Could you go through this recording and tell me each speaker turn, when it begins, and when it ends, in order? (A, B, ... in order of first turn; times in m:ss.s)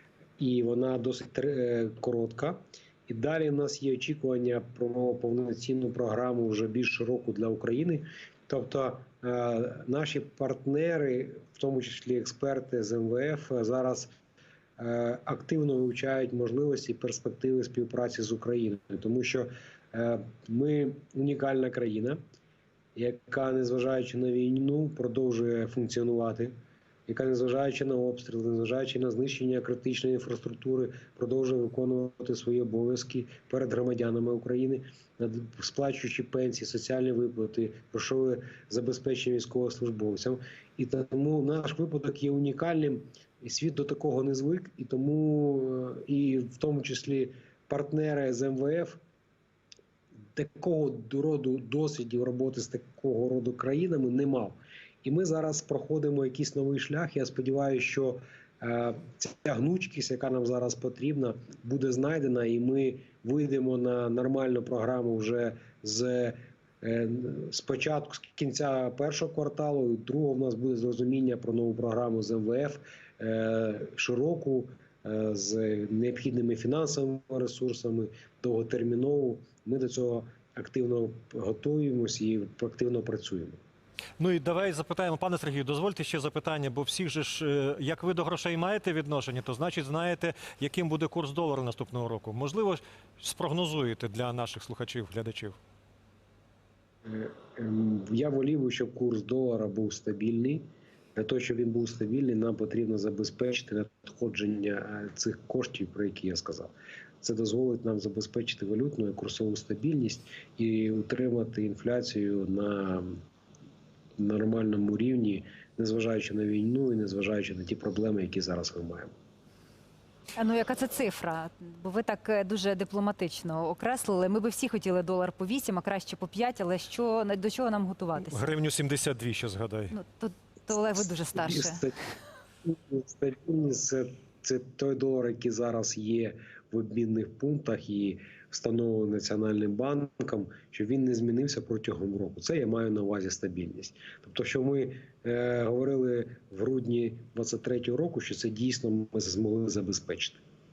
0:00.4-0:14.1 A
0:14.8-0:22.2 A
0:22.9-0:26.5 A
0:27.1-0:49.0 A
0:50.3-1:23.6 A
1:24.2-1:35.6 B
1:37.0-1:40.6 A
1:41.2-1:53.2 A
1:54.2-1:59.1 A
2:00.4-2:08.4 C
2:08.2-2:09.9 B
2:09.9-2:11.8 C
2:11.4-2:12.1 A
2:12.6-2:30.4 A